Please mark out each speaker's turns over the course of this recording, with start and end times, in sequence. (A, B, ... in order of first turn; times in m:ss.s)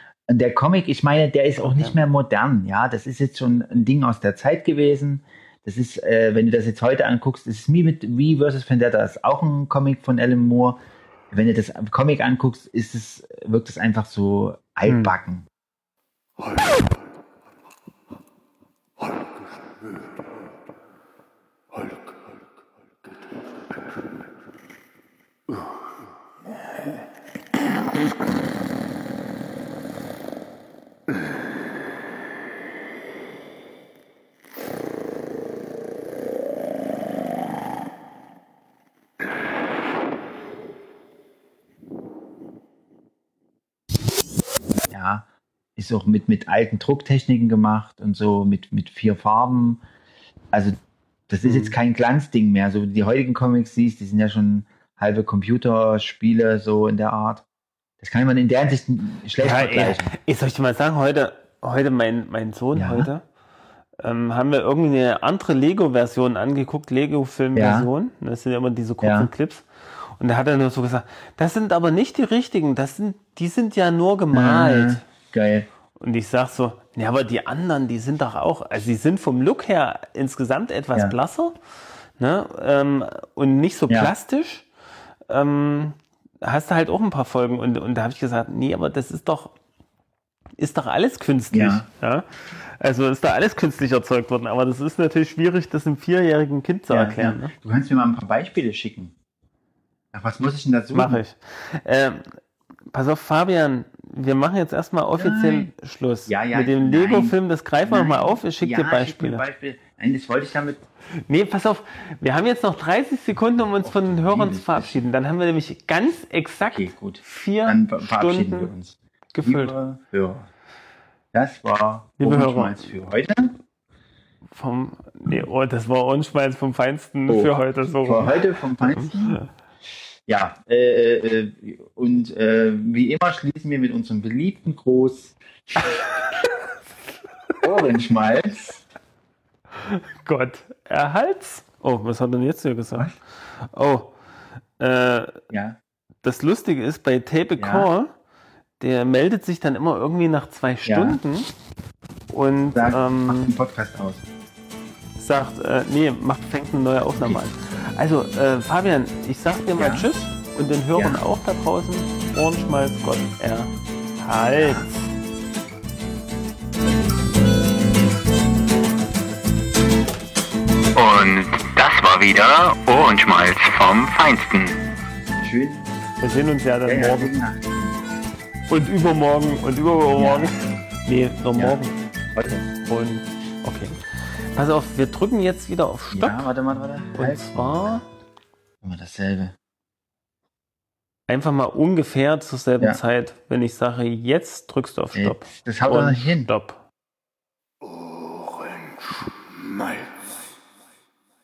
0:00.3-0:10.8 A
0:01.6-0:02.0 B
0:11.3-0:15.5 A
0:14.9-0:15.1 B
0:44.9-0:49.8 A
0:50.5-0:50.8 A
0:51.3-0:57.4 A
0:51.4-0:51.7 B
0:58.0-1:00.1 A
0:59.4-1:03.2 B
1:02.7-1:03.1 A
1:04.0-1:09.6 B
1:07.5-1:07.9 A
1:09.0-1:09.3 A
1:10.2-1:15.0 B
1:14.3-1:15.7 A
1:16.0-1:21.5 B
1:22.2-1:24.6 B
1:25.3-1:29.5 B
1:30.6-1:37.5 B
1:31.5-1:31.8 A
1:36.9-1:39.1 A
1:40.1-1:41.2 A
1:40.9-1:42.3 B
1:42.9-1:49.4 B
1:45.2-1:45.7 A
1:46.3-1:50.8 A
1:51.3-1:58.7 B
1:53.8-1:55.0 A
1:56.7-2:00.5 A
1:59.3-1:59.7 B
2:01.3-2:03.5 A
2:02.2-2:02.8 B
2:04.5-2:09.5 B
2:07.3-2:07.5 A
2:08.0-2:09.4 A
2:10.3-2:16.0 A
2:15.9-2:16.3 B
2:17.6-2:18.8 A
2:19.8-2:23.1 B
2:23.7-2:24.1 B
2:24.8-2:25.5 B
2:25.5-2:25.8 A
2:26.2-2:28.1 B
2:27.6-2:27.9 A
2:28.8-2:31.5 B
2:30.8-2:31.2 A
2:32.3-2:33.5 B
2:32.7-2:34.2 A
2:35.2-2:45.1 B
2:39.8-2:40.1 A
2:40.9-2:41.2 A
2:44.6-2:44.9 A
2:50.9-2:54.9 C
2:55.3-2:55.9 A
2:56.2-2:57.3 B
2:56.8-2:58.1 A
2:58.7-3:02.0 B
3:00.2-3:00.5 A
3:02.3-3:02.7 A
3:02.8-3:04.0 B
3:04.5-3:06.5 B
3:06.1-3:08.0 A
3:07.1-3:08.0 B
3:08.8-3:09.5 A
3:11.3-3:16.8 B
3:15.1-3:16.5 A